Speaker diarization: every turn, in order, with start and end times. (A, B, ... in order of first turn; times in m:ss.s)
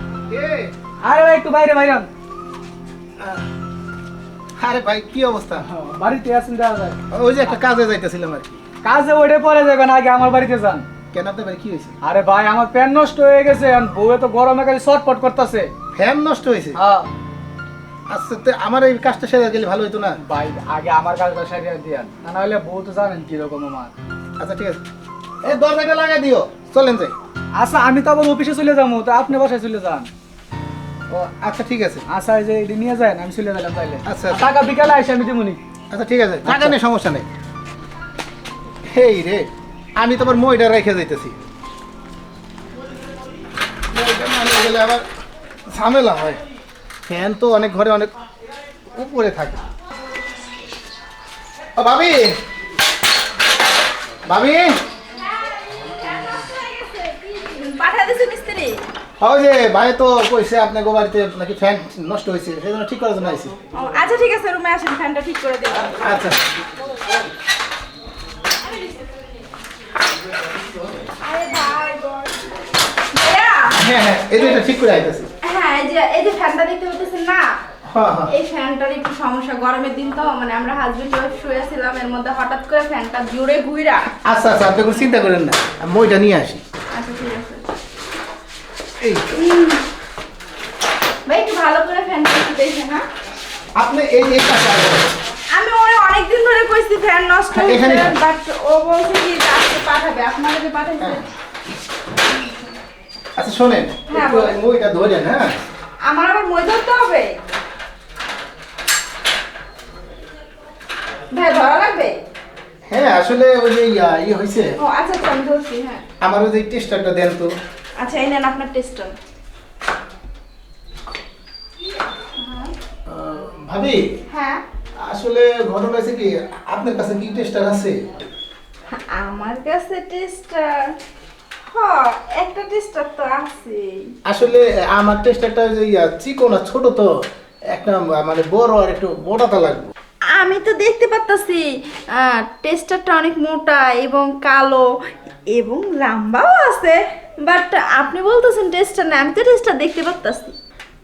0:00.3-0:00.7 A
0:01.0-0:02.1 B
0:03.2-0:03.4 A
0:04.6-0:05.6 A
0:05.6-0:07.0 B
0:07.1-0:08.6 A
0:08.8-0:10.8 B
0:11.1-0:12.0 A
0:12.0-0:15.7 B
0:15.9-0:16.8 A
0:16.8-0:17.1 B
0:18.1-0:20.2 A
0:20.2-0:23.9 B
0:24.4-0:24.8 A
0:25.4-0:27.1 A
0:27.6-0:30.1 B
0:31.1-0:32.0 A
0:32.1-0:35.6 B
0:34.0-0:34.4 A
0:35.9-0:37.2 A
0:36.4-0:36.8 B
0:38.9-0:41.4 A
0:43.9-0:45.0 A
0:45.7-0:46.4 A
0:47.1-0:48.1 A
0:48.9-0:49.6 A
0:51.8-0:52.3 A
0:54.2-0:54.7 A
0:56.1-0:58.8 C
0:59.2-1:03.5 A
1:03.7-1:06.2 C
1:05.8-1:06.4 A
1:11.2-1:12.5 C
1:13.1-1:13.8 C
1:13.8-1:15.3 A
1:14.4-1:14.7 C
1:15.4-1:17.5 C
1:17.8-1:18.3 A
1:18.3-1:24.1 C
1:24.2-1:26.6 A
1:26.9-1:27.6 C
1:29.0-1:29.3 A
1:29.3-1:29.8 C
1:31.2-1:33.0 C
1:33.8-1:35.1 A
1:35.5-1:41.3 C
1:37.5-1:38.2 A
1:41.0-1:41.2 A
1:43.4-1:45.5 A
1:44.1-1:44.6 C
1:46.0-1:47.4 C
1:51.3-1:52.2 C
1:52.9-1:54.8 A
1:54.8-1:56.0 C
1:56.2-1:57.5 A
1:58.0-1:59.1 C
2:02.4-2:02.7 C
2:03.1-2:04.0 A
2:04.3-2:04.6 C
2:05.0-2:08.0 A
2:08.9-2:10.9 C
2:11.7-2:14.1 C
2:14.2-2:17.1 A
2:17.7-2:19.9 A
2:20.3-2:24.9 C
2:25.5-2:30.6 C